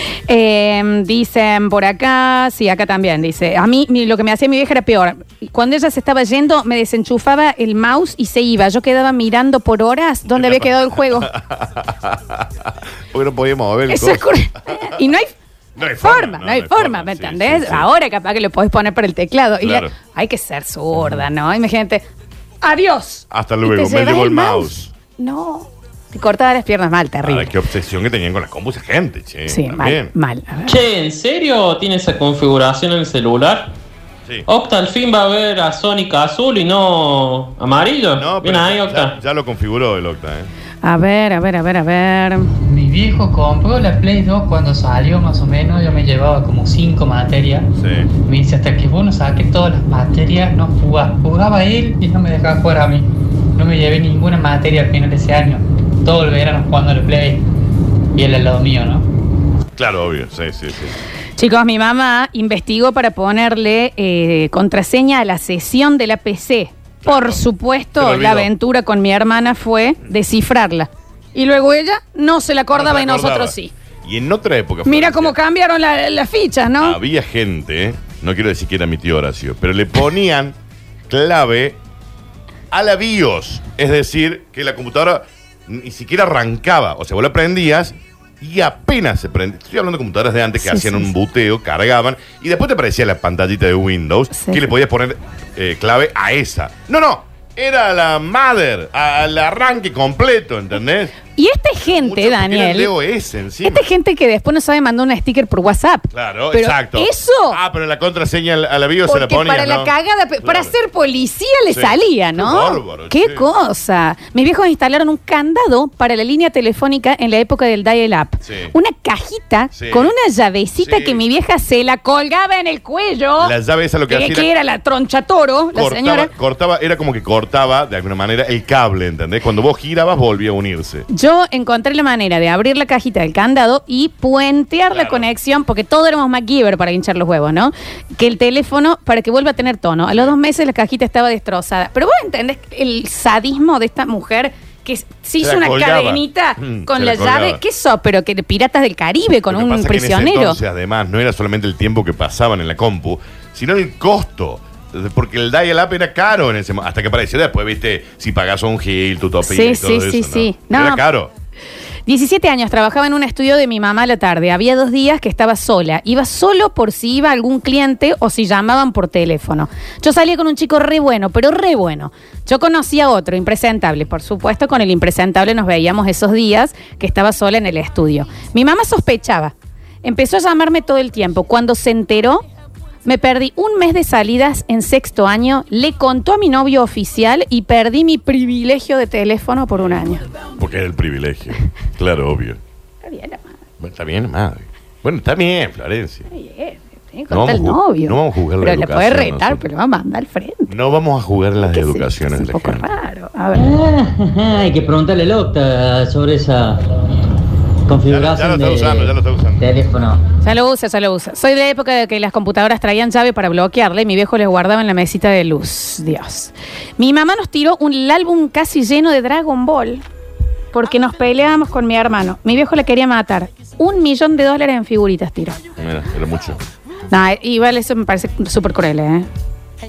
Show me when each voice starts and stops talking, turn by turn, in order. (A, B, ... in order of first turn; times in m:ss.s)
0:00.3-0:11.3 A
0:10.3-0:14.2 B
0:13.9-0:15.3 A
0:15.8-0:17.9 B
0:16.0-0:22.0 A
0:19.6-0:19.9 B
0:21.0-0:21.2 B
0:22.6-0:27.5 A
0:23.3-0:24.9 B
0:27.2-0:30.1 B
0:29.5-0:30.8 A
0:30.7-0:33.7 C
0:34.5-0:39.2 C
0:38.2-0:40.5 B
0:40.8-0:42.5 A
0:42.6-0:47.7 D
0:47.8-0:48.1 B
0:48.2-0:57.4 D
0:58.2-0:59.1 D
0:59.8-1:01.0 B
1:01.4-1:13.7 A
1:07.0-1:07.4 B
1:08.0-1:08.5 B
1:12.7-1:15.4 B
1:14.9-1:17.0 A
1:16.8-1:20.6 B
1:21.1-1:21.8 B
1:22.7-1:41.2 B
1:30.6-1:31.1 A
1:34.3-1:34.7 A
1:41.3-1:42.9 A
1:41.9-1:43.9 B
1:43.6-1:47.6 A
1:46.1-1:49.9 B
1:49.1-2:03.5 A
1:50.4-1:50.7 B
1:51.7-1:53.4 B
1:58.4-1:58.7 B
1:59.7-2:00.1 B
2:00.8-2:01.2 B
2:03.4-2:04.5 B
2:04.1-2:06.3 A
2:05.8-2:11.1 B
2:11.1-2:30.6 A
2:14.9-2:15.2 B
2:25.4-2:27.6 B
2:29.5-2:41.3 B
2:39.4-2:41.0 A
2:42.1-2:59.5 A
3:00.0-3:02.4 A
3:03.0-3:10.2 A
3:10.6-3:12.6 B
3:13.0-3:13.4 A
3:13.8-3:16.3 B
3:16.3-3:20.7 A
3:17.3-3:19.6 B
3:20.7-3:22.8 B
3:21.7-3:23.7 A
3:23.5-3:26.8 E
3:27.9-3:30.2 E
3:28.1-3:29.6 B
3:30.4-3:40.0 A
3:40.7-3:45.6 A
3:45.8-3:46.6 B
3:47.1-3:49.3 A